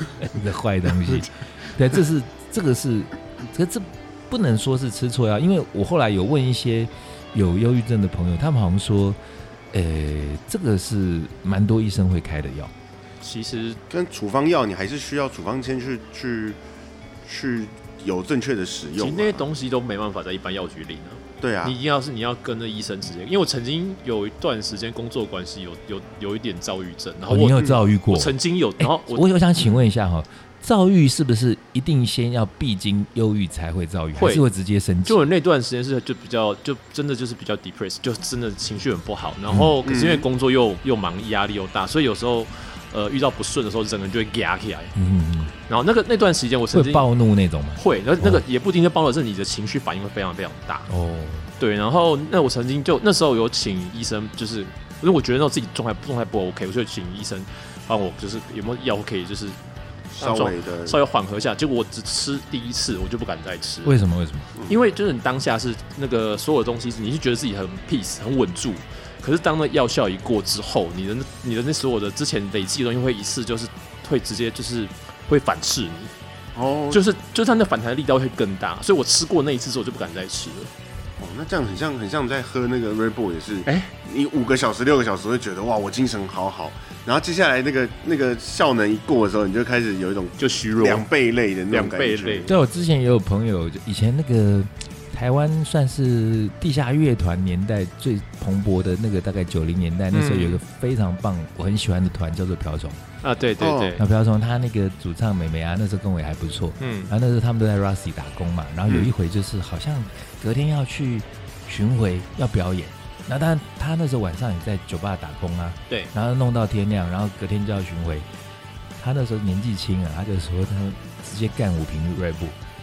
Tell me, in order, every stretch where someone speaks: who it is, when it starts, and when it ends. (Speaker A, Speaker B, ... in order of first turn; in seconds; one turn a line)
Speaker A: 0.2-9.2
Speaker A: 9.7-12.7
Speaker B: 13.2-13.8
Speaker C: 13.9-16.6
Speaker C: 17.3-19.5
Speaker B: 19.0-29.3
Speaker C: 21.4-21.8
Speaker A: 27.3-35.2
Speaker B: 34.2-34.5
Speaker B: 35.1-44.9
Speaker A: 39.5-39.8
Speaker C: 39.8-40.3
Speaker A: 45.0-45.5
Speaker B: 45.7-47.1
Speaker A: 46.7-48.4
Speaker B: 47.8-50.9
Speaker A: 50.9-51.5
Speaker B: 51.6-59.6
Speaker C: 60.1-61.0
Speaker B: 60.2-64.0
Speaker A: 63.9-64.5
Speaker B: 64.7-76.1
Speaker C: 76.6-77.0
Speaker B: 76.9-80.7
Speaker C: 81.2-92.5
Speaker B: 83.7-83.9
Speaker B: 90.4-91.1
Speaker B: 91.7-92.5
Speaker A: 92.5-103.0
Speaker B: 100.1-100.6
Speaker B: 103.2-104.0
Speaker C: 103.6-104.0
Speaker A: 104.0-118.3
Speaker B: 106.8-107.1
Speaker A: 119.0-122.6